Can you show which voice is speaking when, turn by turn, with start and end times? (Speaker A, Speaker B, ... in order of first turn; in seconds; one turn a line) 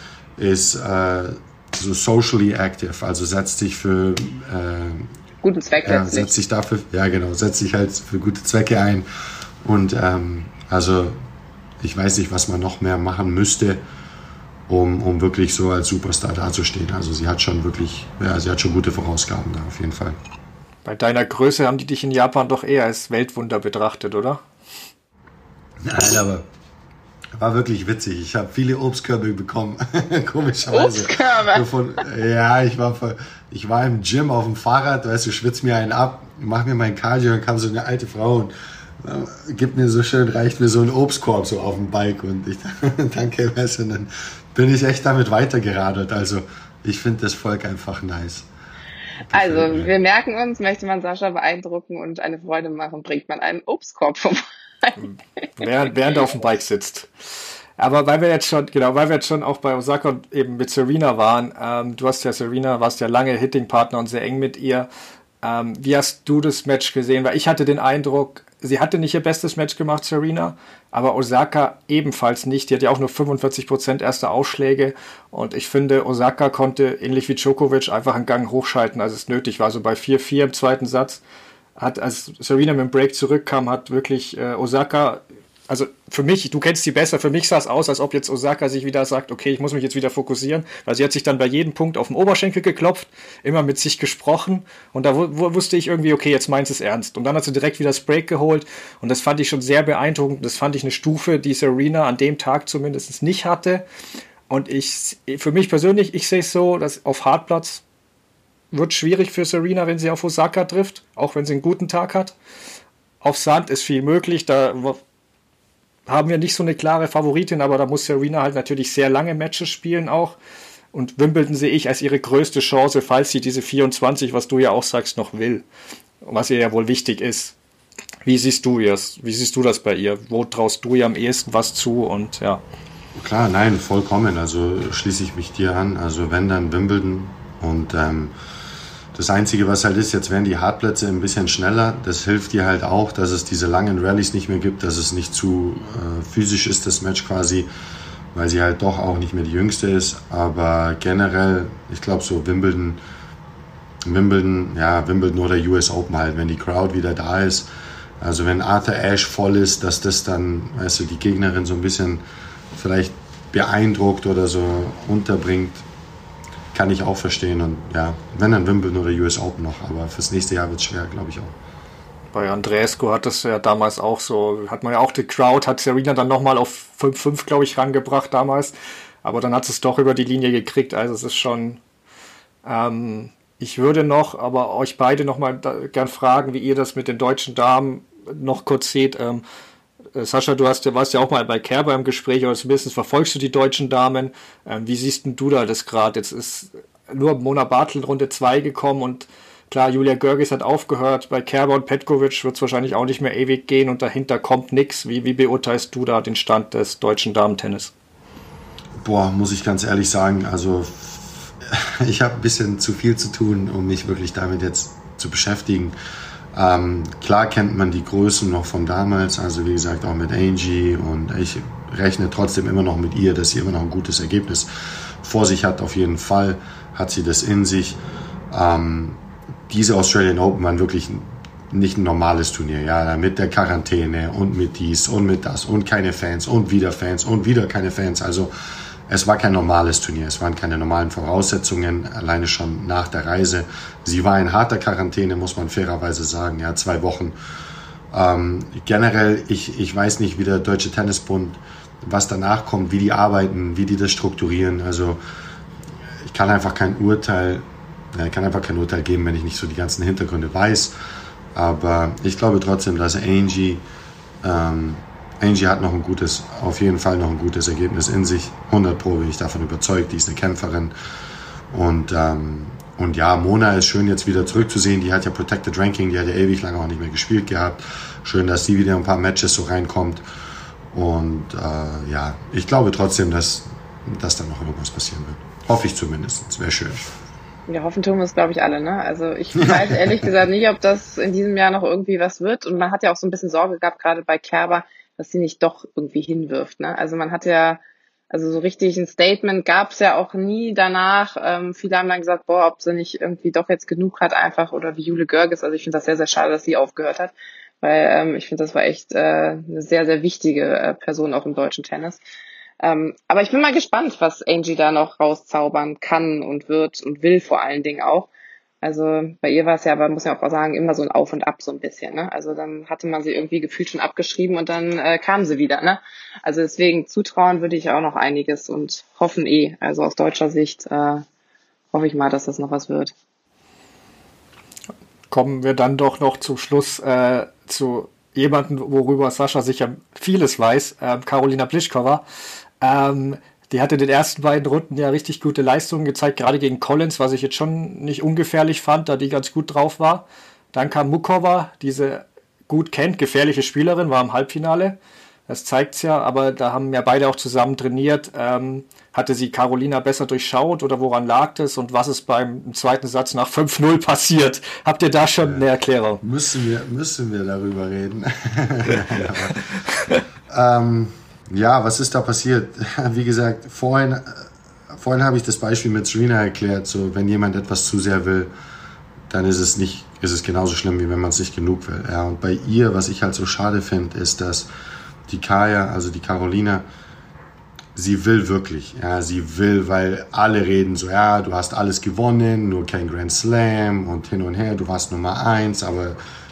Speaker A: 0.4-5.1
Speaker B: 5.4-6.3
Speaker A: 5.8-9.1
Speaker A: 9.6-11.2
Speaker A: 11.8-13.8
Speaker A: 14.7-20.2
Speaker C: 20.8-24.4
Speaker A: 25.8-26.4
Speaker A: 27.4-48.5
Speaker B: 30.7-31.6
Speaker A: 49.3-49.9
Speaker B: 49.3-55.0
Speaker C: 55.0-57.1
Speaker C: 57.8-64.9
Speaker C: 65.4-81.2
Speaker C: 81.8-103.8
Speaker C: 104.5-107.8
Speaker C: 108.7-112.3
Speaker C: 113.2-115.0
Speaker C: 116.1-120.3
Speaker C: 120.9-125.6
Speaker C: 126.2-127.5
Speaker C: 128.2-132.6
Speaker A: 133.1-138.3
Speaker A: 139.1-147.7
Speaker A: 148.3-153.0
Speaker A: 154.0-157.7
Speaker A: 158.2-162.2
Speaker A: 162.7-165.8
Speaker A: 166.7-171.5
Speaker C: 172.3-181.8
Speaker C: 182.6-189.4
Speaker C: 190.1-207.9
Speaker A: 209.0-215.9
Speaker A: 216.5-224.7
Speaker A: 225.2-228.0
Speaker A: 228.5-238.5
Speaker A: 239.1-247.3
Speaker A: 248.1-255.2
Speaker A: 256.2-260.9
Speaker A: 261.5-263.8
Speaker A: 264.4-270.9
Speaker A: 271.7-280.2
Speaker A: 280.9-287.0
Speaker B: 287.7-312.2
Speaker A: 289.6-290.3
Speaker B: 312.8-318.3
Speaker B: 318.8-331.2
Speaker B: 331.9-333.1
Speaker C: 335.3-342.2
Speaker C: 342.8-355.0
Speaker C: 355.5-366.2
Speaker A: 366.2-369.6
Speaker A: 370.5-378.5
Speaker A: 379.3-384.7
Speaker A: 385.3-386.9
Speaker A: 387.9-396.2